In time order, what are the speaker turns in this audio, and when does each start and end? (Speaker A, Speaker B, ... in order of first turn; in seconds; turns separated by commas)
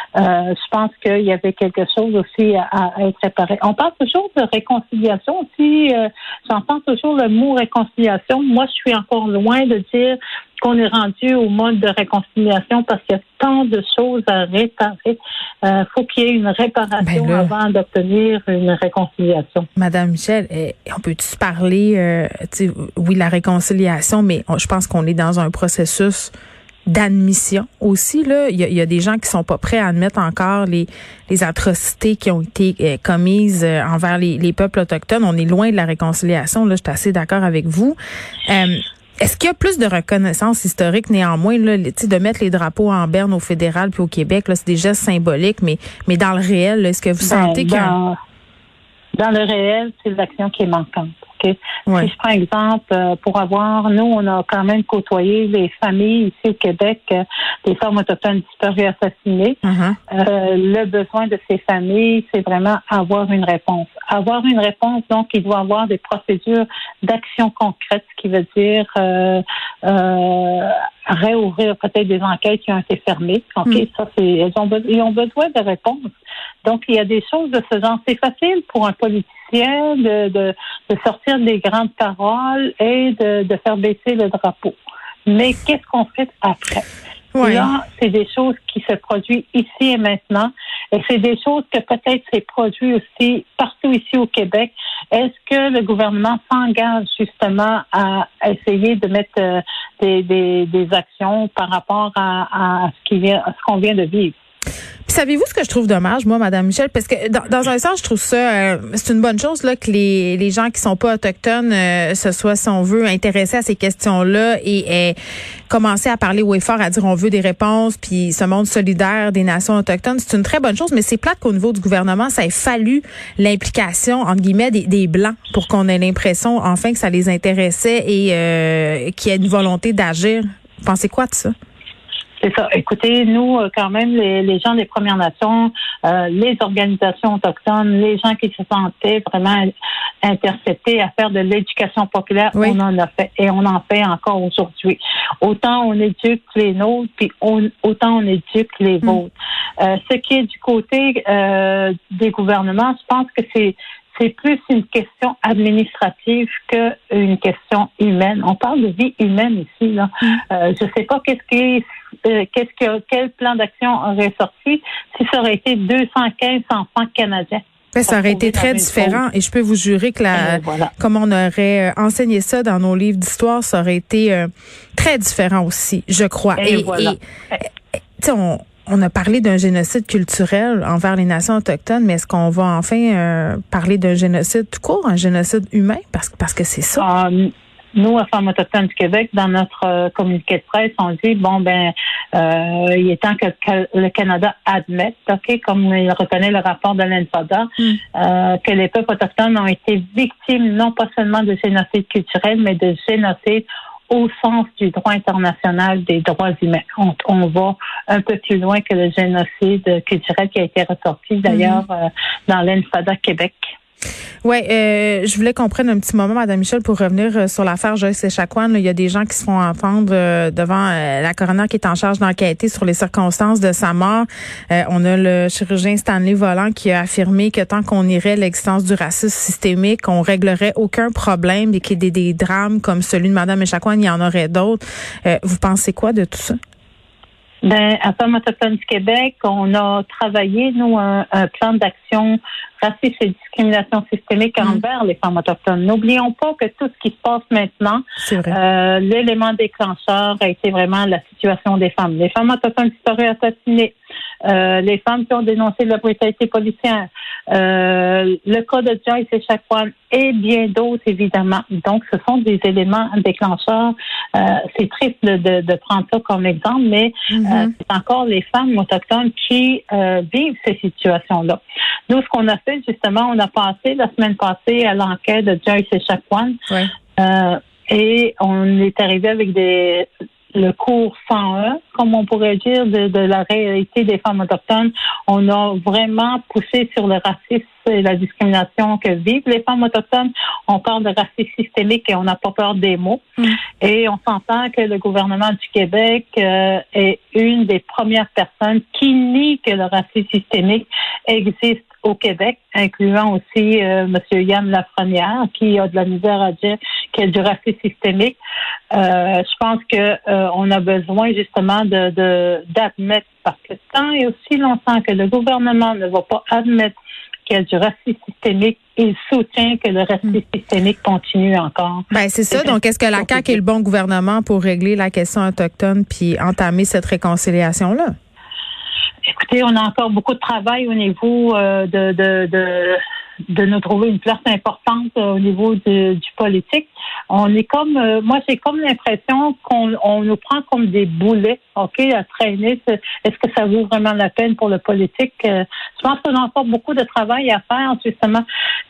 Speaker A: 0.2-19.7, Speaker B: 17.0-17.5, Speaker B: 19.8-26.3, Speaker B: 26.9-48.0, Speaker A: 47.2-48.1, Speaker A: 49.2-76.0, Speaker B: 59.6-60.0, Speaker A: 76.6-86.8, Speaker B: 87.3-87.7, Speaker A: 87.4-104.3, Speaker B: 105.1-115.2, Speaker B: 115.7-131.5, Speaker A: 132.4-139.7, Speaker A: 140.2-169.2, Speaker B: 167.9-177.2, Speaker A: 170.3-170.9, Speaker A: 176.6-177.2, Speaker B: 178.2-187.1, Speaker A: 187.0-213.7, Speaker B: 211.5-211.8, Speaker B: 214.4-236.6, Speaker A: 237.6-253.9, Speaker B: 248.2-248.6, Speaker A: 254.5-276.6, Speaker B: 267.3-267.7, Speaker A: 277.2-308.4, Speaker A: 308.9-316.9, Speaker A: 317.5-323.6, Speaker B: 322.1-328.1, Speaker A: 329.3-348.4